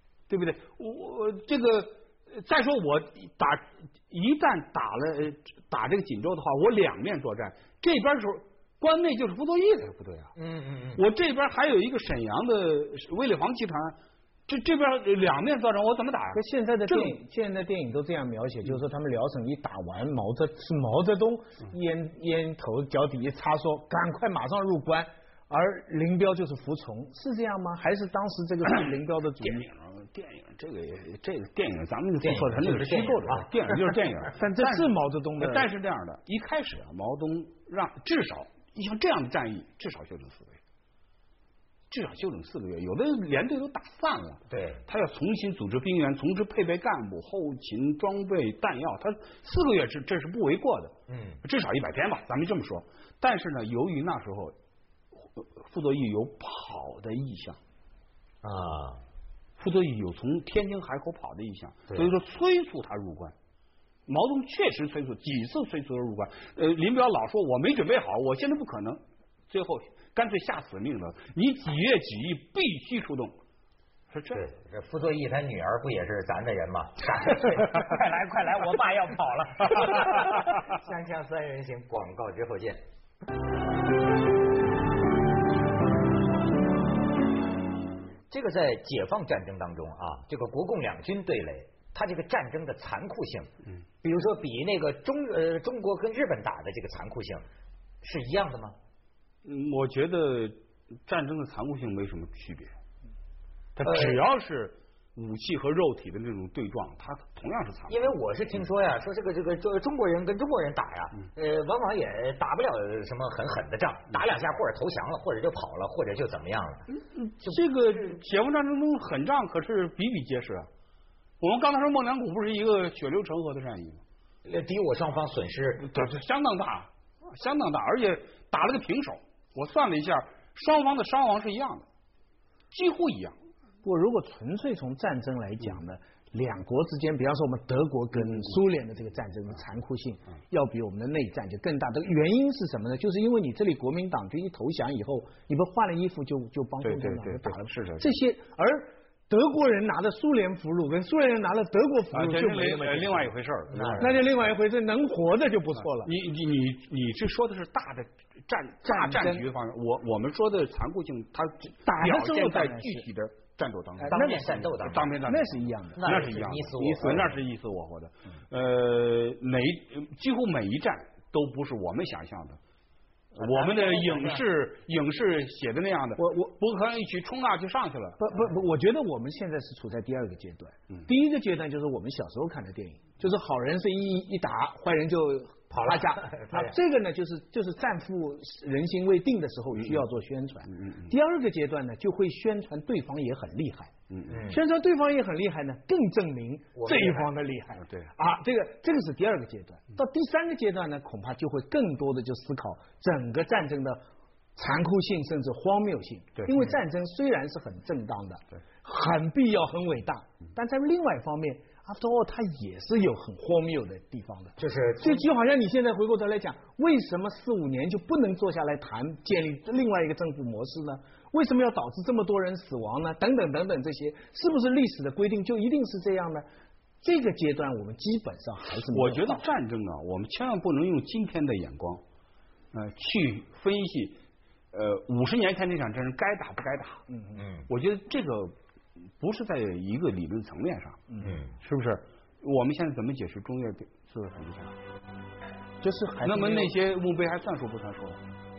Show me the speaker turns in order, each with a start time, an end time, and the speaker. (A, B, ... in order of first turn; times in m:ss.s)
0:00.3-0:10.3 A
0:10.4-0:11.0 B
0:11.0-0:17.2 A
0:16.3-0:29.6 C
0:29.4-0:40.6 A
0:32.2-0:34.0 B
0:34.4-0:35.7 C
0:41.9-0:54.6 A
0:44.5-0:44.8 B
0:51.1-0:51.4 B
0:55.1-0:57.6 A
0:58.4-0:59.0 B
0:59.6-1:03.4 A
1:04.1-1:13.4 A
1:14.1-1:14.4 A
1:14.3-1:22.8 B
1:28.3-1:33.5 B
1:34.0-1:37.4 B
1:38.0-1:38.8 B
1:39.4-1:42.7 A
1:43.8-1:48.2 A
1:43.8-1:44.2 B
1:47.9-1:56.9 B
1:56.9-2:00.7 A
2:01.4-2:04.0 A
2:04.4-2:05.9 B
2:05.8-2:11.9 A
2:12.7-2:13.4 A
2:13.8-2:33.3 C
2:18.2-2:18.6 A
2:26.8-2:28.2 A
2:32.1-2:34.3 A
2:33.7-2:34.1 B
2:34.0-2:36.1 C
2:35.9-2:52.6 A
2:38.9-2:39.5 C
2:41.8-2:43.1 C
2:44.0-2:46.3 C
2:44.1-2:45.1 B
2:46.0-2:47.3 B
2:53.3-2:58.2 A
2:53.4-2:54.4 B
2:56.2-2:56.4 C
2:58.2-3:13.9 C
3:05.8-3:06.7 B
3:09.8-3:10.0 A
3:10.7-3:11.1 A
3:14.1-3:14.4 A
3:14.3-3:14.6 B
3:14.5-3:24.0 C
3:16.8-3:17.3 B
3:24.6-3:46.5 C
3:34.6-3:35.3 B
3:47.0-3:49.4 C
3:48.9-3:52.0 A
3:52.7-3:54.2 A
3:54.7-3:57.0 A
3:57.1-3:57.4 C
3:57.4-3:57.7 B
3:57.7-3:58.6 A
3:59.2-4:04.8 A
4:01.1-4:01.4 C
4:01.2-4:01.6 B
4:05.8-4:06.8 C
4:06.2-4:08.2 A